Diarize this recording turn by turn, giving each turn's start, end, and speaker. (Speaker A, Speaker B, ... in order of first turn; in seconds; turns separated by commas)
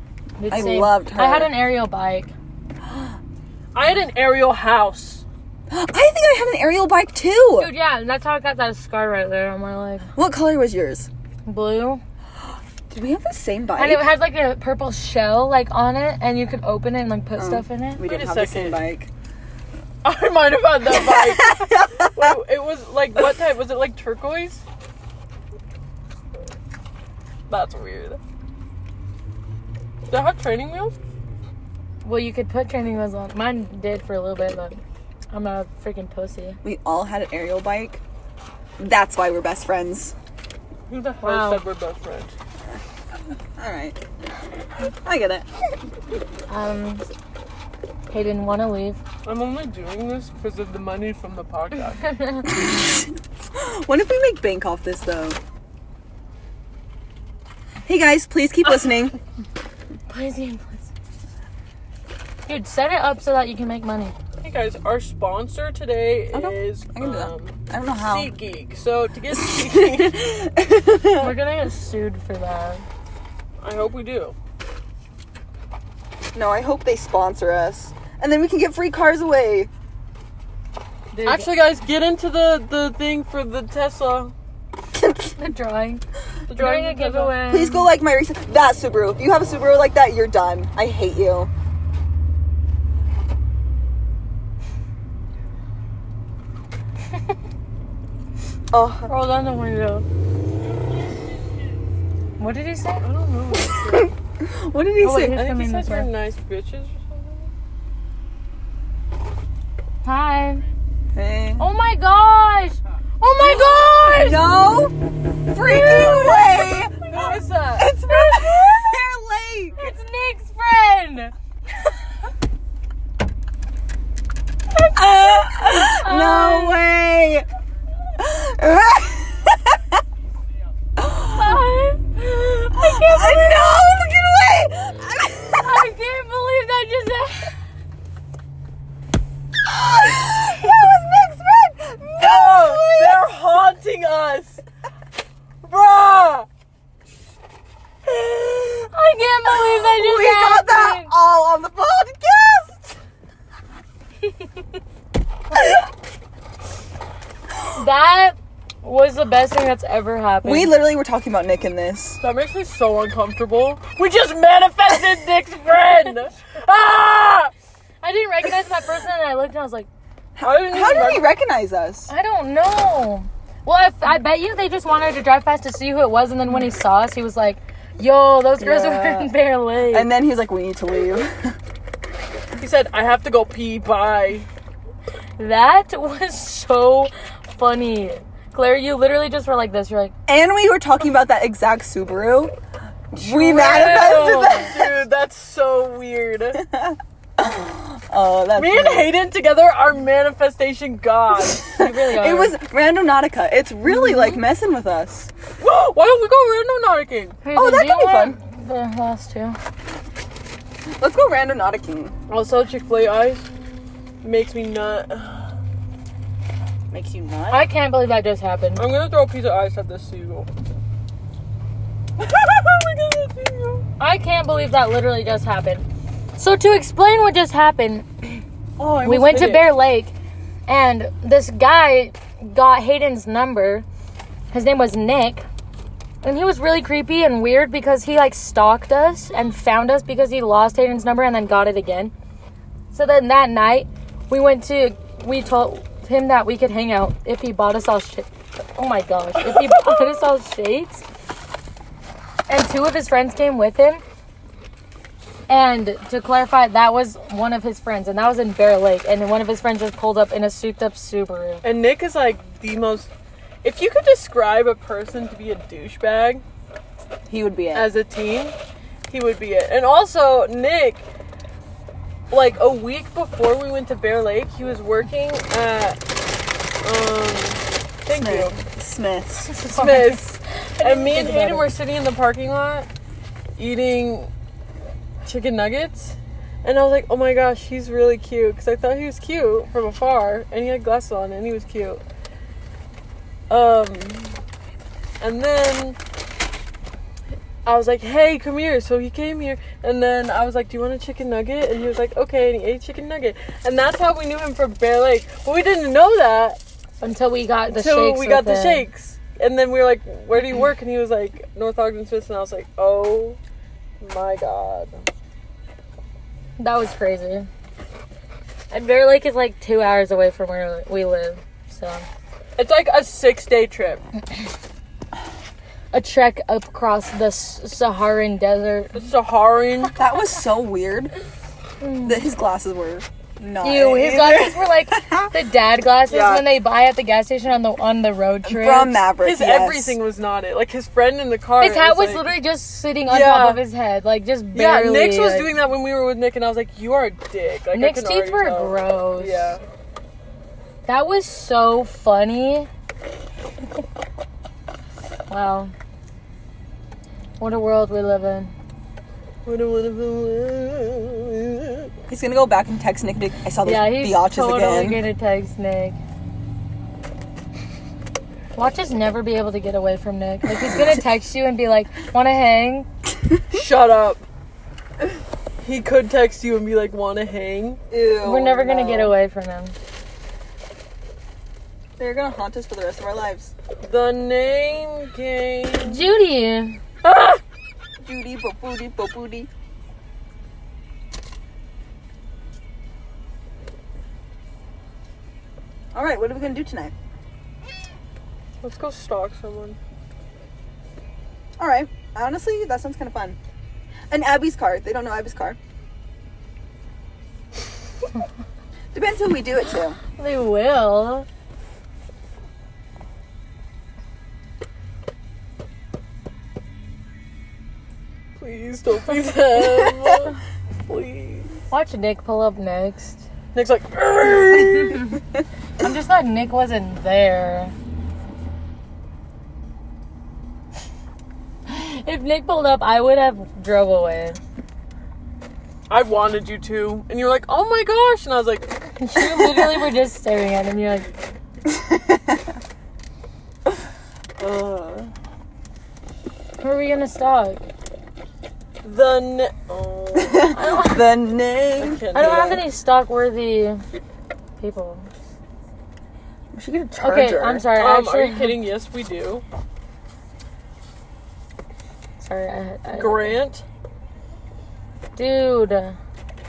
Speaker A: 0.4-2.3, Speaker B: 0.5-1.6, Speaker C: 3.7-5.2, Speaker B: 5.7-7.7, Speaker A: 7.6-10.1, Speaker B: 10.1-11.1, Speaker A: 11.4-12.0, Speaker B: 12.9-14.1, Speaker A: 13.8-18.0, Speaker B: 17.4-19.1, Speaker C: 18.0-18.8, Speaker C: 20.0-24.6, Speaker B: 20.9-22.3, Speaker C: 27.5-28.2, Speaker C: 30.1-30.9, Speaker A: 32.0-34.8, Speaker A: 35.3-36.6, Speaker B: 36.6-38.0, Speaker B: 38.8-40.1, Speaker C: 40.9-42.3, Speaker A: 41.2-41.6, Speaker B: 43.6-44.0, Speaker B: 45.0-45.5, Speaker A: 46.5-47.1, Speaker A: 48.1-49.0, Speaker C: 49.2-52.0, Speaker A: 52.0-52.5, Speaker B: 52.5-55.4, Speaker B: 57.8-59.1, Speaker A: 60.1-60.9, Speaker A: 62.5-64.1, Speaker C: 64.4-70.2, Speaker B: 66.3-68.3, Speaker B: 69.3-71.3, Speaker A: 71.2-72.8, Speaker C: 73.6-74.3, Speaker B: 76.3-79.7, Speaker A: 81.1-81.5, Speaker C: 81.2-84.3, Speaker B: 84.9-85.4, Speaker A: 85.4-86.0, Speaker C: 86.5-87.4, Speaker A: 86.5-87.9, Speaker B: 87.5-91.5, Speaker B: 98.7-99.1, Speaker A: 99.1-100.0, Speaker A: 102.4-103.0, Speaker C: 103.0-104.1, Speaker B: 103.9-105.4, Speaker A: 105.0-106.1, Speaker C: 105.1-107.5, Speaker A: 110.0-110.6, Speaker B: 111.1-111.7, Speaker A: 111.6-114.4, Speaker C: 113.4-114.3, Speaker B: 114.0-114.9, Speaker B: 115.5-117.2, Speaker A: 115.6-116.8, Speaker C: 117.1-118.0, Speaker B: 117.8-119.8, Speaker A: 118.0-118.8, Speaker A: 119.8-121.3, Speaker A: 124.7-126.8, Speaker B: 124.9-127.5, Speaker B: 128.2-129.9, Speaker A: 131.0-133.6, Speaker B: 131.1-131.5, Speaker B: 132.7-135.8, Speaker A: 135.5-137.6, Speaker B: 139.6-143.2, Speaker C: 142.1-144.6, Speaker C: 145.6-146.5, Speaker C: 148.2-148.8, Speaker A: 148.9-151.1, Speaker B: 149.6-152.9, Speaker A: 157.7-160.7, Speaker B: 160.4-162.2, Speaker C: 162.2-167.5, Speaker A: 168.0-169.9, Speaker B: 170.4-172.1, Speaker C: 170.4-171.3, Speaker A: 172.1-180.1, Speaker B: 178.6-179.3, Speaker B: 179.9-181.5, Speaker C: 182.6-184.5, Speaker A: 185.4-190.1, Speaker B: 190.3-192.5, Speaker B: 193.1-194.9, Speaker A: 193.2-194.7, Speaker C: 194.5-196.6, Speaker B: 196.5-199.1, Speaker C: 198.5-201.7, Speaker B: 201.4-205.3, Speaker A: 201.7-202.6, Speaker A: 203.8-204.4, Speaker C: 205.6-207.4, Speaker A: 207.4-209.6, Speaker B: 207.5-208.4, Speaker B: 211.0-212.1, Speaker C: 212.3-213.5, Speaker C: 214.2-215.6, Speaker B: 216.9-217.7, Speaker A: 217.5-218.8, Speaker C: 218.8-220.5, Speaker C: 222.2-223.8, Speaker A: 224.0-225.8, Speaker A: 226.4-228.4, Speaker C: 228.8-229.7, Speaker A: 229.0-230.1, Speaker A: 230.7-233.8, Speaker A: 234.5-235.4, Speaker A: 236.2-242.1, Speaker A: 242.9-251.0, Speaker C: 249.5-249.9, Speaker A: 252.5-254.0, Speaker A: 255.5-261.6, Speaker C: 261.6-263.1, Speaker C: 263.6-266.4, Speaker B: 267.3-267.9, Speaker C: 267.7-268.5, Speaker C: 269.1-271.0, Speaker C: 272.3-276.0, Speaker C: 276.8-278.6, Speaker B: 278.1-279.6, Speaker A: 279.5-281.7, Speaker C: 279.6-282.9, Speaker C: 283.6-284.3, Speaker C: 285.2-292.0, Speaker C: 293.5-294.4, Speaker C: 295.2-296.0, Speaker C: 297.6-306.6, Speaker A: 307.0-308.9, Speaker C: 307.7-313.4, Speaker C: 314.0-315.0, Speaker A: 316.6-317.5, Speaker A: 318.7-322.1, Speaker C: 322.6-324.0, Speaker A: 325.9-329.1, Speaker C: 328.9-330.0, Speaker B: 329.9-331.1, Speaker A: 331.8-332.2, Speaker B: 332.0-335.3, Speaker A: 333.6-339.0, Speaker B: 336.1-336.4, Speaker B: 338.4-340.0, Speaker C: 339.2-342.3, Speaker A: 341.6-345.5, Speaker C: 343.0-343.6, Speaker C: 344.5-349.6, Speaker A: 347.7-349.5, Speaker A: 350.9-352.7, Speaker A: 355.3-355.7, Speaker A: 357.4-358.5, Speaker C: 359.4-361.9, Speaker B: 362.1-365.0, Speaker A: 363.6-366.0, Speaker A: 368.5-372.9, Speaker C: 373.5-374.2, Speaker C: 375.6-377.8, Speaker B: 377.9-379.1, Speaker A: 378.2-379.8, Speaker B: 382.0-383.5, Speaker C: 383.8-386.1, Speaker A: 385.8-386.8, Speaker C: 387.0-387.4, Speaker B: 388.0-389.5, Speaker B: 395.9-396.9, Speaker C: 398.6-399.8, Speaker B: 401.6-403.4, Speaker B: 404.1-405.6, Speaker B: 408.9-410.0, Speaker A: 410.2-411.2, Speaker C: 418.4-421.5, Speaker A: 421.7-423.2, Speaker C: 423.5-425.2, Speaker A: 424.9-425.2, Speaker A: 425.8-427.7, Speaker A: 431.7-434.4, Speaker C: 435.9-438.7, Speaker A: 439.0-441.1, Speaker B: 439.2-439.8, Speaker B: 441.6-442.5, Speaker B: 444.4-445.1, Speaker A: 446.6-447.6, Speaker C: 448.8-450.5, Speaker B: 450.1-452.0, Speaker A: 450.5-451.1, Speaker C: 451.8-452.6, Speaker A: 452.1-453.8, Speaker A: 454.6-455.1, Speaker B: 456.5-457.7, Speaker A: 457.0-458.6, Speaker C: 457.7-459.4, Speaker A: 462.2-463.4, Speaker C: 462.9-463.6, Speaker A: 465.1-466.0